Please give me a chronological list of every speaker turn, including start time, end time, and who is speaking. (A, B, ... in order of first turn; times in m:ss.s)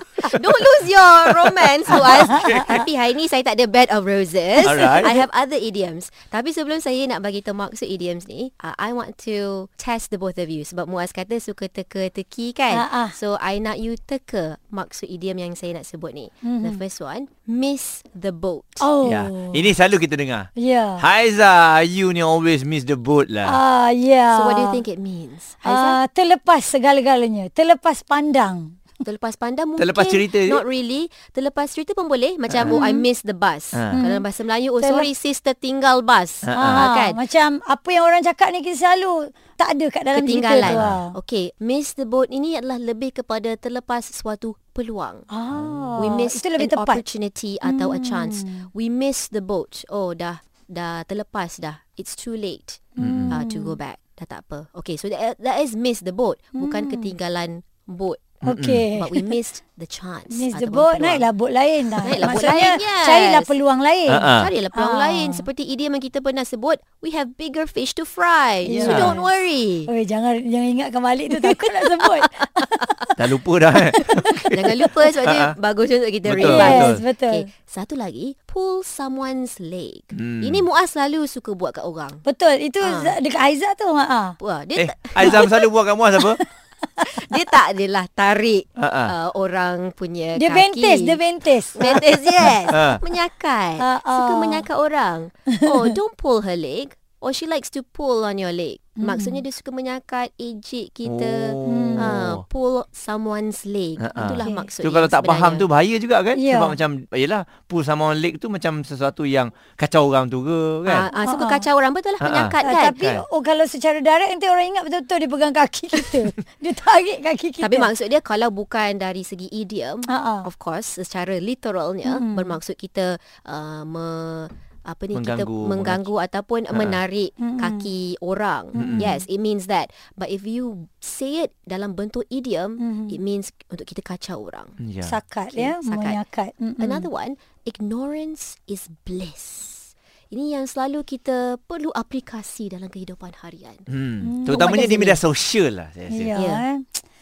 0:00.2-0:18.9 A
0:01.4-0:02.7 B
0:02.2-0:02.8 C
0:04.6-0:05.2 B
0:12.7-0:13.2 C
0:16.4-0:16.8 C
0:18.8-0:19.7 C
0:19.0-0:23.6 B
0:20.6-0:21.0 C
0:23.4-0:24.8 C
0:24.3-0:26.0 A
0:25.6-0:28.7 C
0:29.0-0:37.2 A
0:29.8-0:30.6 B
0:32.5-0:32.8 B
0:32.7-0:33.0 C
0:33.7-0:34.1 B
0:33.9-0:34.2 C
0:34.8-0:35.1 C
0:36.4-0:36.9 B
0:36.5-0:41.2 C
0:40.1-0:45.3 A
0:40.6-0:41.0 B
0:45.3-0:47.0 C
0:45.5-0:46.0 B
0:46.0-1:01.3 A
0:47.6-0:48.7 C
0:53.0-0:53.8 C
0:53.0-0:53.4 B
0:56.6-0:57.1 C
0:58.4-0:59.4 C
0:58.5-0:58.8 B
1:00.3-1:05.4 C
1:02.0-1:03.6 A
1:04.1-1:04.5 B
1:04.3-1:09.9 A
1:08.7-1:09.3 C
1:08.7-1:09.2 B
1:09.9-1:13.1 C
1:11.3-1:12.3 A
1:13.2-1:15.5 B
1:14.5-1:22.2 A
1:16.3-1:17.0 B
1:16.4-1:17.5 C
1:20.1-1:20.6 B
1:22.2-1:24.4 C
1:22.8-1:23.1 A
1:24.4-1:25.6 A
1:24.8-1:26.4 B
1:27.0-1:31.2 A
1:28.8-1:29.1 B
1:30.4-1:32.0 C
1:31.8-1:45.7 A
1:32.7-1:33.0 B
1:33.8-1:34.7 C
1:35.5-1:35.8 C
1:39.0-1:39.4 C
1:41.0-1:42.4 B
1:41.6-1:42.2 C
1:44.0-1:51.1 B
1:46.4-1:46.8 C
1:50.9-1:53.0 A
1:51.1-1:51.6 C
1:52.2-1:53.2 B
1:52.6-1:57.9 C
1:57.6-2:14.8 A
2:00.1-2:00.5 C
2:02.1-2:02.6 C
2:05.1-2:06.1 B
2:06.7-2:07.0 B
2:07.4-2:07.9 C
2:08.8-2:09.1 B
2:08.8-2:09.2 C
2:12.8-2:13.2 C
2:14.8-2:15.2 B
2:15.0-2:17.0 C
2:15.5-2:16.2 A
2:16.8-2:23.9 A
2:23.9-2:26.3 B
2:24.2-2:25.1 C
2:24.5-2:25.2 A
2:26.1-2:27.0 C
2:26.3-2:26.6 A